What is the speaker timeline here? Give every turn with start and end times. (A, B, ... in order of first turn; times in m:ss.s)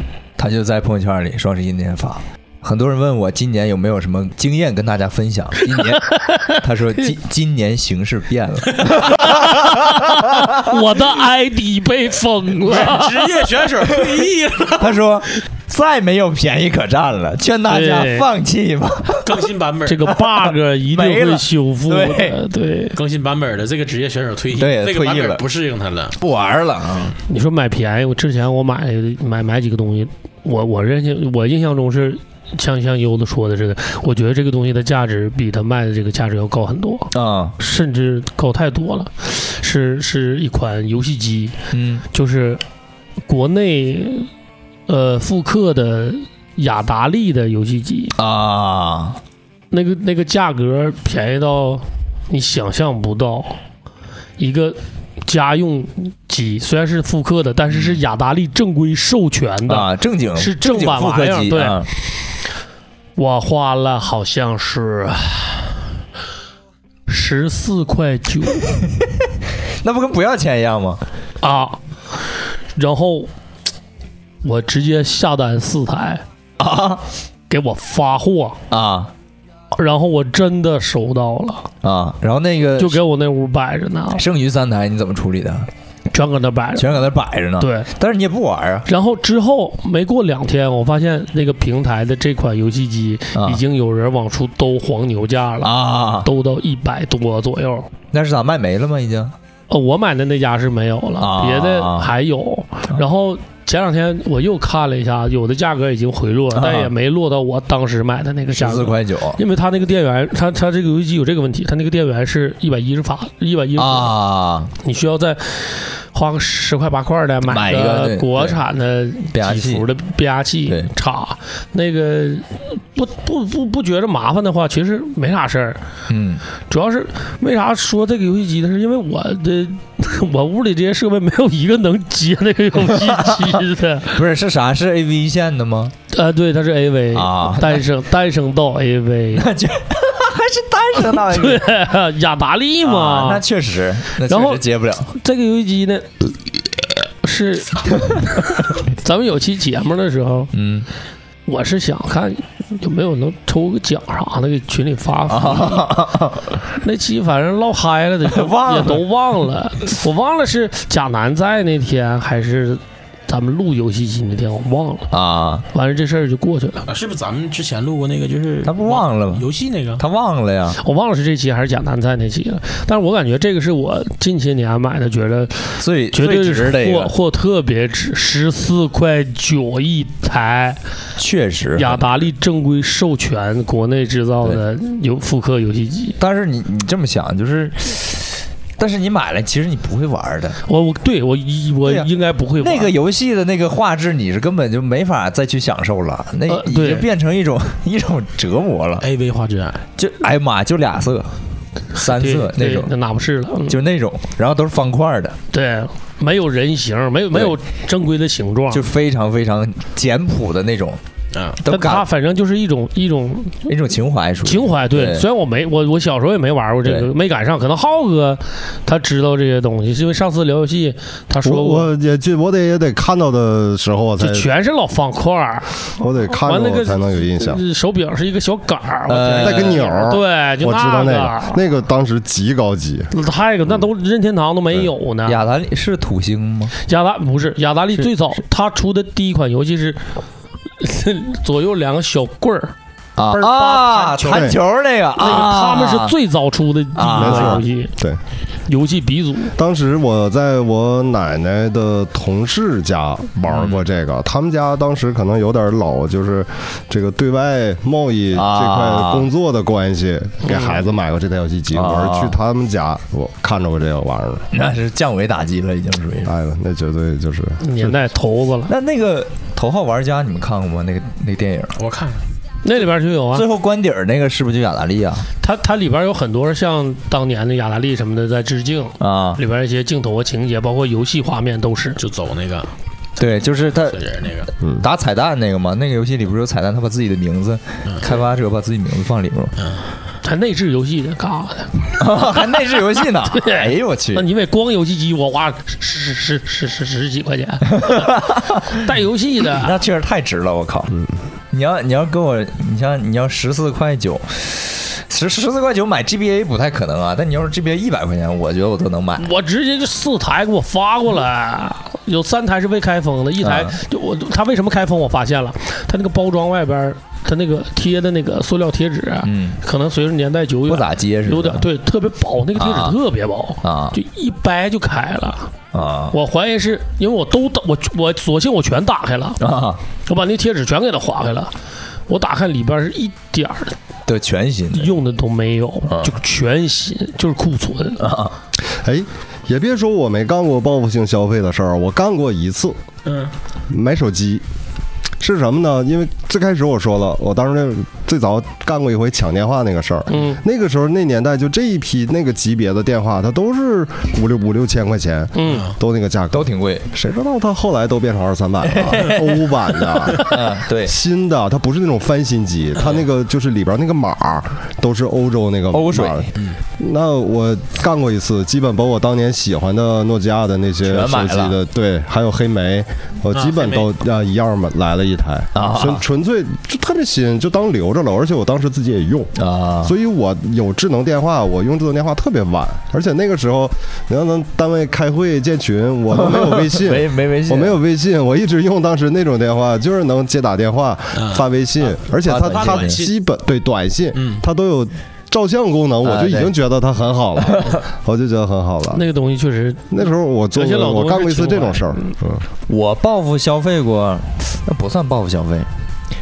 0:00.4-0:10.7 A
0:06.1-0:06.5 B
0:09.1-0:13.2 B
0:12.7-0:15.0 C
0:14.8-0:19.4 A
0:17.7-0:18.3 B
0:19.2-0:20.1 C
0:19.8-0:23.0 B
0:20.1-0:22.4 A
0:22.9-0:26.2 C
0:24.5-0:25.4 A
0:26.2-0:27.1 A
0:27.3-0:41.6 B
0:37.1-0:37.6 A
0:41.7-0:42.0 A
0:42.1-0:42.6 B
0:43.3-0:44.3 B
0:44.9-0:48.1 B
0:48.2-0:49.2 A
0:49.7-0:53.6 B
0:54.4-1:01.9 B
0:57.7-0:58.0 A
0:59.7-1:01.9 A
1:03.2-1:05.7 B
1:07.1-1:08.7 B
1:09.8-1:11.0 A
1:11.4-1:12.2 B
1:12.7-1:13.3 B
1:14.4-1:16.2 B
1:16.6-1:17.0 A
1:17.5-1:18.6 B
1:18.7-1:19.1 A
1:19.8-1:21.7 B
1:21.8-1:23.0 A
1:22.8-1:24.2 B
1:24.1-1:25.7 A
1:26.1-1:27.0 B
1:26.7-1:28.9 A
1:27.6-1:27.9 B
1:28.9-1:37.9 B
1:33.3-1:33.6 A
1:35.6-1:36.3 A
1:38.1-1:39.3 A
1:39.7-1:54.1 B
1:41.2-1:42.1 A
1:46.5-1:46.9 A
1:48.5-1:49.4 A
1:53.8-1:54.7 A
1:54.8-2:05.8 B
1:57.4-1:58.6 A
1:59.3-1:59.8 A
2:06.1-2:06.4 A
2:06.7-2:14.2 B
2:12.8-2:15.9 A
2:16.1-2:19.5 B
2:17.1-2:17.8 A
2:19.4-2:21.7 A
2:21.0-2:23.4 B
2:22.8-2:25.1 A
2:24.2-2:26.4 B
2:27.2-2:30.5 B
2:30.5-2:30.9 A
2:31.4-2:35.9 B
2:35.3-2:36.5 A
2:36.8-2:45.1 B
2:38.3-2:39.0 A
2:45.1-2:45.6 A
2:45.7-2:46.9 B
2:46.9-2:50.0 C
2:48.6-2:49.4 A
2:50.0-2:50.8 A
2:50.8-3:00.8 B
2:55.8-2:57.1 A
3:01.2-3:02.0 A
3:01.8-3:06.2 B
3:06.2-3:10.6 A
3:10.7-3:12.9 B
3:12.6-3:19.0 A
3:16.5-3:17.0 B
3:19.0-3:19.8 C
3:20.0-3:21.3 A
3:21.9-3:22.9 A
3:22.0-3:23.8 B
3:23.7-3:25.4 A
3:25.5-3:28.8 B
3:28.7-3:31.0 A
3:31.3-3:31.6 C
3:31.6-3:32.0 A
3:31.7-3:33.7 B
3:33.7-3:35.2 A
3:34.4-3:41.9 B
3:36.8-3:37.1 A
3:41.4-3:44.5 D
3:44.2-3:45.7 B
3:46.0-3:47.6 D
3:46.4-3:51.6 B
3:49.1-3:49.8 A
3:49.3-3:53.1 D
3:53.1-3:55.4 B
3:55.2-3:56.7 A
3:56.8-4:00.0 B
4:00.8-4:02.7 B
4:03.2-4:06.2 A
4:03.3-4:04.5 B
4:04.3-4:04.6 D
4:05.2-4:07.9 B
4:06.9-4:07.6 A
4:07.1-4:08.2 D
4:08.6-4:09.5 B
4:09.6-4:24.5 D
4:13.5-4:13.8 A
4:18.3-4:19.3 A
4:20.4-4:20.8 B
4:21.7-4:22.4 A
4:24.5-4:26.3 A
4:26.2-4:27.6 D
4:27.6-4:28.7 B
4:28.7-4:31.8 A
4:31.8-4:32.2 C
4:32.6-4:33.4 B
4:33.3-4:35.3 A
4:35.4-4:42.0 B
4:39.0-4:39.4 A
4:42.0-4:42.7 C
4:43.2-4:44.0 A
4:43.2-4:44.5 C
4:44.8-4:49.5 A
4:47.9-4:48.2 C
4:49.6-4:49.8 C
4:50.2-4:52.0 B
4:52.0-4:54.2 A
4:53.3-4:58.1 B
4:57.7-4:58.6 A
4:58.7-4:59.8 B
4:59.5-5:00.9 A
5:01.5-5:09.2 A
5:09.2-5:25.5 B
5:13.4-5:13.7 A
5:19.2-5:19.6 A
5:20.7-5:21.6 A
5:22.6-5:23.0 A
5:23.6-5:24.0 A
5:25.7-5:26.2 A
5:26.1-5:29.4 B
5:29.4-5:29.8 A
5:30.0-5:31.5 B
5:32.1-5:33.8 B
5:34.0-5:35.0 A
5:34.7-5:38.0 B
5:38.0-5:38.3 A
5:38.7-5:42.8 D
5:43.0-5:43.3 C
5:43.7-5:44.4 D
5:45.2-6:39.0 D
5:50.1-5:50.4 B
5:55.4-5:55.7 B
5:56.3-5:56.9 A
5:58.7-5:59.5 A
6:00.1-6:00.9 A
6:05.7-6:06.3 A
6:10.8-6:11.5 A
6:13.3-6:13.9 C
6:15.5-6:16.0 A
6:19.4-6:19.9 A
6:26.2-6:27.8 A
6:31.1-6:33.1 C
6:32.2-6:33.0 A
6:34.1-6:34.4 C
6:36.0-6:36.5 A
6:38.9-6:42.1 B
6:39.9-6:42.4 D
6:42.7-6:45.7 A